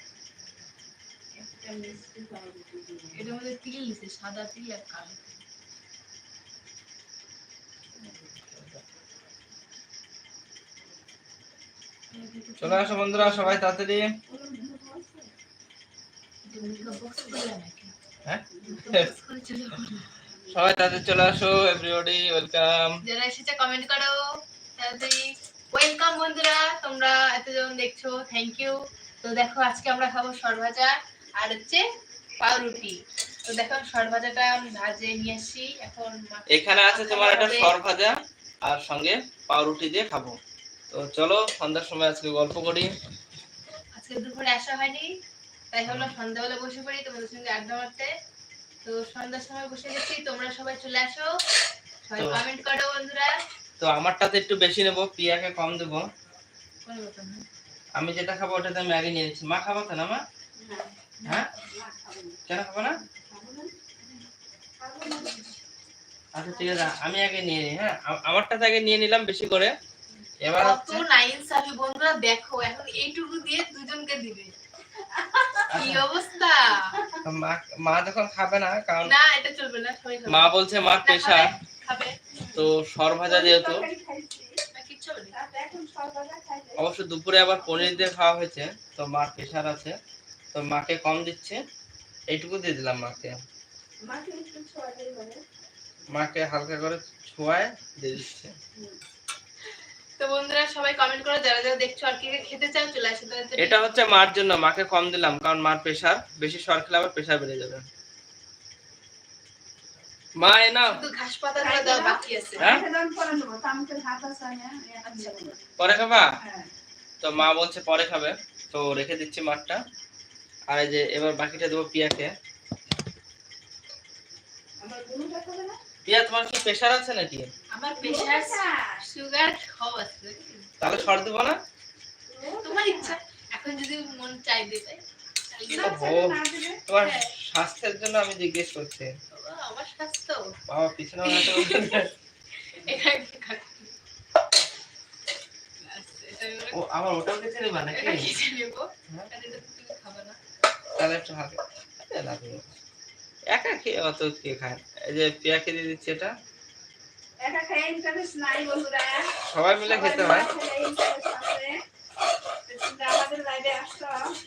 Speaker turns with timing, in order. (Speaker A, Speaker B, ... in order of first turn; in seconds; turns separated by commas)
Speaker A: 1.3-3.3, Speaker B: 3.1-5.4, Speaker C: 8.5-8.8, Speaker B: 12.1-13.7, Speaker C: 12.6-14.1, Speaker A: 14.3-15.3, Speaker B: 16.4-17.9, Speaker C: 18.2-19.1, Speaker A: 18.5-18.9, Speaker B: 18.7-20.1, Speaker A: 20.3-20.9, Speaker C: 20.5-23.0, Speaker B: 23.0-31.8, Speaker B: 32.4-37.7, Speaker C: 36.5-40.4, Speaker C: 40.9-42.9, Speaker B: 43.9-45.1, Speaker B: 45.7-48.1, Speaker C: 45.9-46.1, Speaker B: 48.8-51.4, Speaker B: 52.0-53.3, Speaker C: 52.2-52.4, Speaker C: 53.8-56.1, Speaker B: 56.8-57.4, Speaker C: 58.0-60.2, Speaker A: 60.6-61.0, Speaker B: 61.2-61.5, Speaker C: 61.2-61.5, Speaker A: 61.6-62.4, Speaker C: 62.5-63.0, Speaker A: 63.2-63.8, Speaker A: 64.8-65.5, Speaker B: 65.0-65.5, Speaker C: 66.3-69.7, Speaker C: 70.4-71.0, Speaker B: 70.5-74.5, Speaker A: 75.0-75.8, Speaker C: 75.7-76.0, Speaker B: 75.7-77.0, Speaker A: 76.8-77.2, Speaker C: 77.2-79.1, Speaker B: 79.0-80.5, Speaker C: 80.3-81.5, Speaker B: 81.0-82.2, Speaker A: 82.3-82.7, Speaker C: 82.5-83.8, Speaker A: 83.2-84.5, Speaker B: 84.7-85.3, Speaker A: 85.3-86.8, Speaker C: 86.8-89.9, Speaker C: 90.5-91.6, Speaker C: 92.3-93.4, Speaker A: 94.0-95.4, Speaker C: 96.1-98.5, Speaker B: 100.2-104.0, Speaker C: 103.6-107.9, Speaker C: 110.4-111.0, Speaker B: 110.9-112.7, Speaker A: 111.5-115.6, Speaker B: 115.0-115.3, Speaker C: 115.8-116.3, Speaker A: 116.4-116.7, Speaker C: 117.2-119.8, Speaker C: 120.7-122.3, Speaker A: 124.8-125.8, Speaker C: 126.0-127.5, Speaker B: 127.7-130.7, Speaker A: 127.9-129.0, Speaker C: 130.8-131.6, Speaker A: 132.3-133.2, Speaker B: 132.6-136.1, Speaker A: 135.7-136.8, Speaker C: 135.8-139.1, Speaker B: 139.3-140.6, Speaker C: 140.7-142.1, Speaker B: 141.2-142.1, Speaker B: 142.6-143.9, Speaker B: 145.8-146.8, Speaker C: 146.7-148.3, Speaker B: 147.9-150.4, Speaker C: 151.0-152.7, Speaker C: 153.5-156.3, Speaker A: 157.4-159.3, Speaker C: 159.5-160.5, Speaker A: 159.8-161.8, Speaker A: 162.7-164.3